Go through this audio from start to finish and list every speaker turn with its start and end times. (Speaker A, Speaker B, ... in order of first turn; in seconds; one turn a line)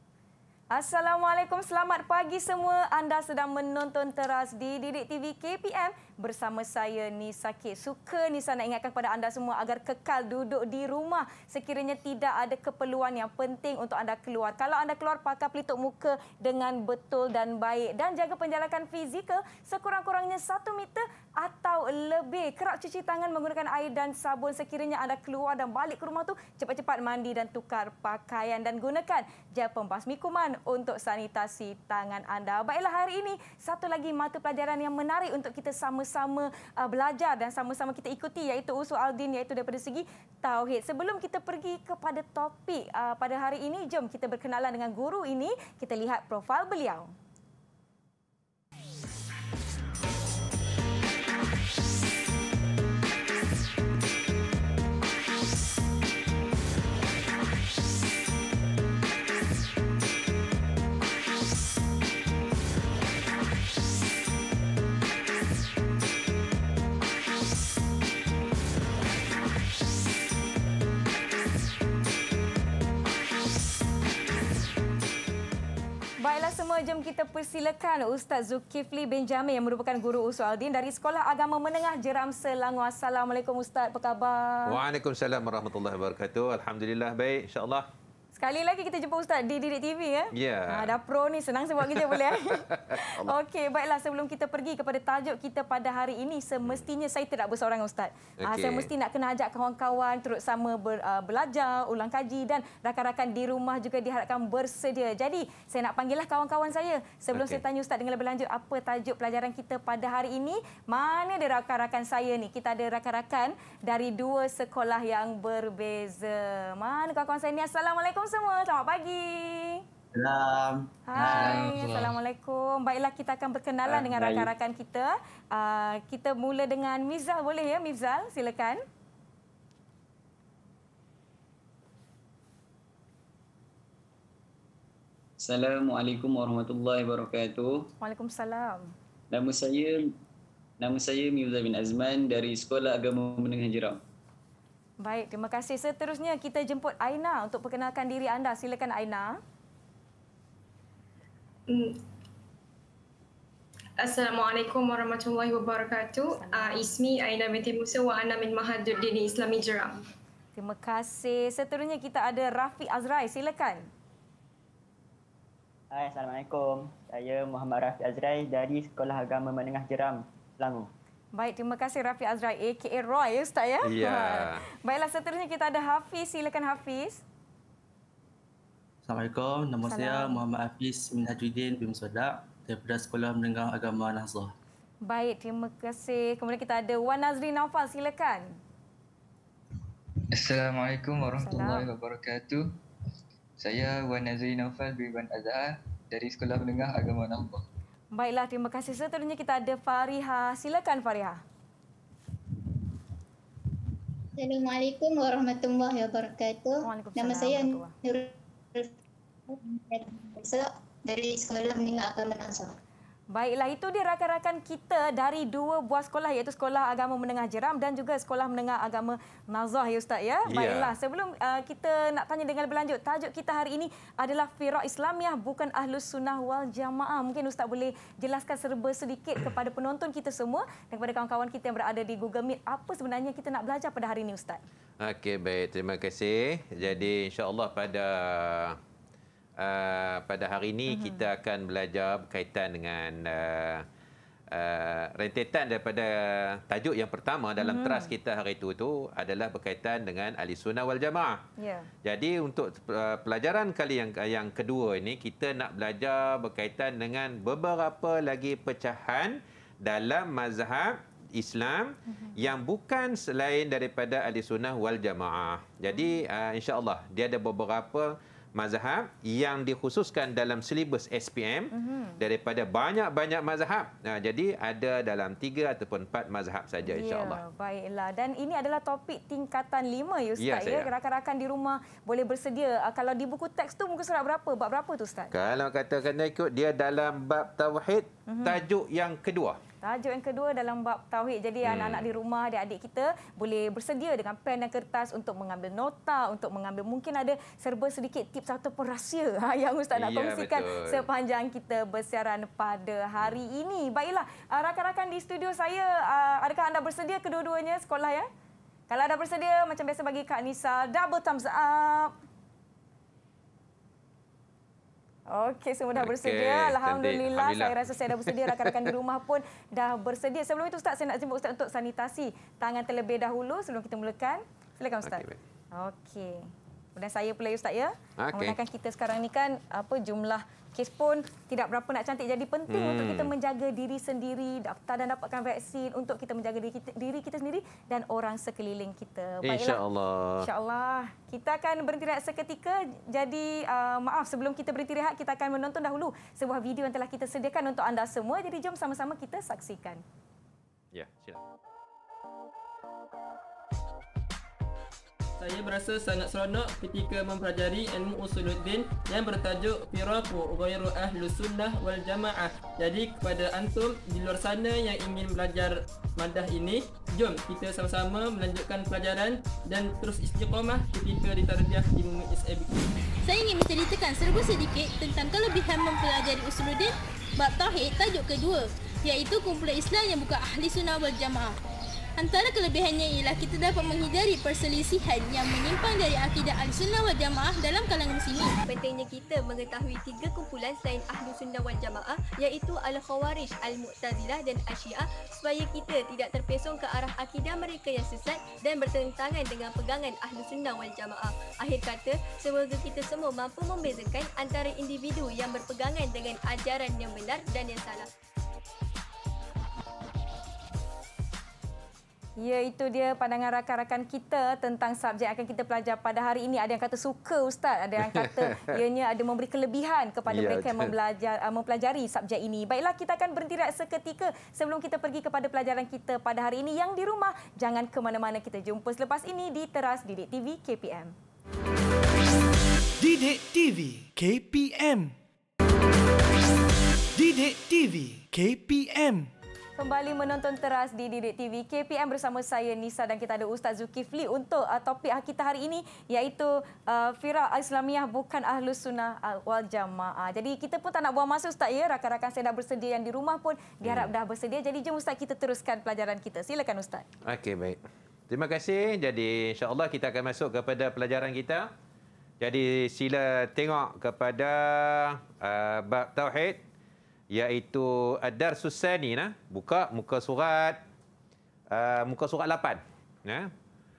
Speaker A: 0.7-47.1
Speaker A: 76.2-84.8
Speaker B: 84.7-87.9
Speaker A: 88.3-119.8
Speaker B: 90.3-90.9
Speaker B: 91.8-93.4
Speaker B: 98.4-98.9
Speaker B: 107.3-107.6
Speaker C: 120.1-121.7
Speaker A: 121.1-128.8
Speaker D: 121.3-122.2
Speaker C: 124.0-124.4
Speaker E: 135.4-137.9
Speaker A: 138.0-138.9
Speaker E: 139.3-140.1
Speaker E: 140.8-144.0
Speaker A: 145.0-149.4
Speaker F: 151.7-152.0
Speaker F: 154.0-160.0
Speaker A: 156.4-157.0
Speaker A: 160.6-163.9
Speaker G: 165.9-170.9
Speaker A: 171.3-177.2
Speaker B: 173.8-174.7
Speaker C: 179.1-184.6
Speaker A: 179.8-180.4
Speaker A: 185.0-188.5
Speaker D: 190.3-192.7
Speaker A: 191.4-191.9
Speaker D: 193.6-197.6
Speaker A: 198.1-201.4
Speaker H: 204.4-208.9
Speaker A: 206.8-207.9
Speaker H: 209.5-212.8
Speaker A: 213.3-234.6
Speaker B: 220.5-220.9
Speaker B: 235.0-238.8
Speaker A: 236.8-237.1
Speaker B: 239.6-243.9
Speaker A: 240.9-241.3
Speaker B: 244.5-251.4
Speaker A: 247.6-248.1
Speaker A: 251.6-251.9
Speaker B: 252.0-277.4
Speaker A: 262.1-262.4
Speaker A: 265.9-266.2
Speaker A: 271.7-272.2
Speaker A: 276.9-285.3
Speaker B: 280.4-280.9
Speaker B: 285.3-289.6
Speaker A: 288.3-288.6
Speaker A: 289.8-308.3
Speaker B: 291.6-292.1
Speaker B: 299.9-301.1
Speaker A: 308.9-312.1
Speaker A: 315.3-325.2
Speaker B: 315.9-318.9
Speaker B: 325.0-325.4
Speaker A: 325.8-339.8
Speaker B: 328.2-328.6
Speaker B: 332.7-333.3
Speaker B: 339.4-340.5
Speaker A: 340.4-350.0
Speaker B: 350.9-351.4
Speaker I: 355.4-372.8
Speaker J: 373.2-381.6
Speaker J: 382.2-388.6
Speaker K: 388.7-408.1
Speaker A: 412.4-431.1
Speaker B: 418.0-418.8
Speaker B: 420.3-420.9
Speaker L: 433.0-435.1
Speaker L: 437.2-439.3
Speaker A: 439.8-457.1
Speaker B: 453.8-454.1
Speaker B: 457.2-461.7
Speaker B: 462.4-466.6
Speaker B: 467.3-470.8
Speaker B: 471.7-473.5